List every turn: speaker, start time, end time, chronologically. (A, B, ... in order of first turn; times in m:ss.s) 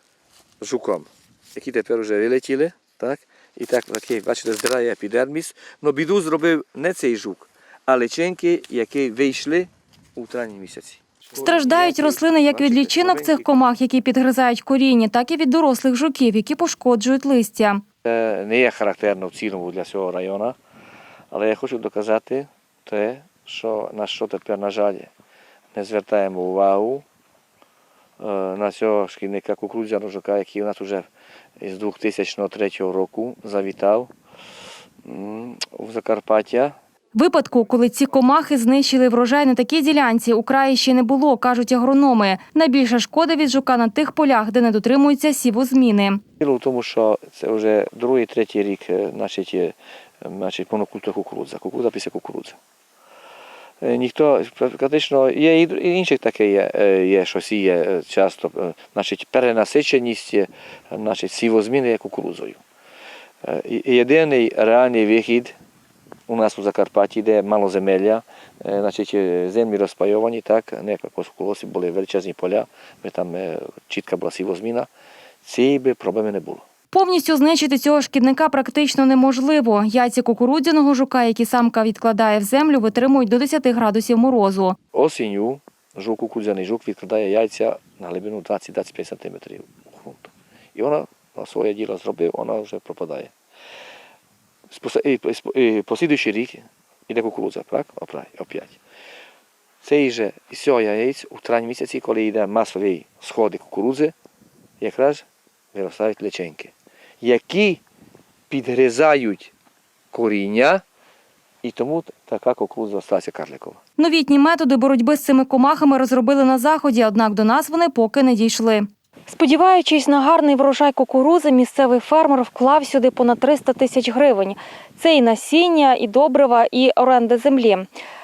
0:00.6-0:13.4 A
0:11.4-0:17.8 B
0:18.0-0:20.6 A
0:21.3-0:25.1 A
0:25.7-0:27.0 A
0:28.2-0:31.1 A
0:31.6-0:34.1 A
0:35.0-0:36.7 A
0:37.1-0:46.2 B
0:46.4-0:52.6 A
0:53.8-1:02.6 A
1:03.4-1:05.5 A
1:06.3-1:14.9 A
1:15.4-1:16.6 A
1:16.9-1:24.8 B
1:24.9-1:33.3 A
1:34.7-1:38.8 A
1:39.8-1:44.1 A
1:44.8-1:47.8 A
1:48.5-1:49.5 A
1:50.1-1:50.8 A
1:51.6-1:53.8 A
1:54.0-2:07.9 B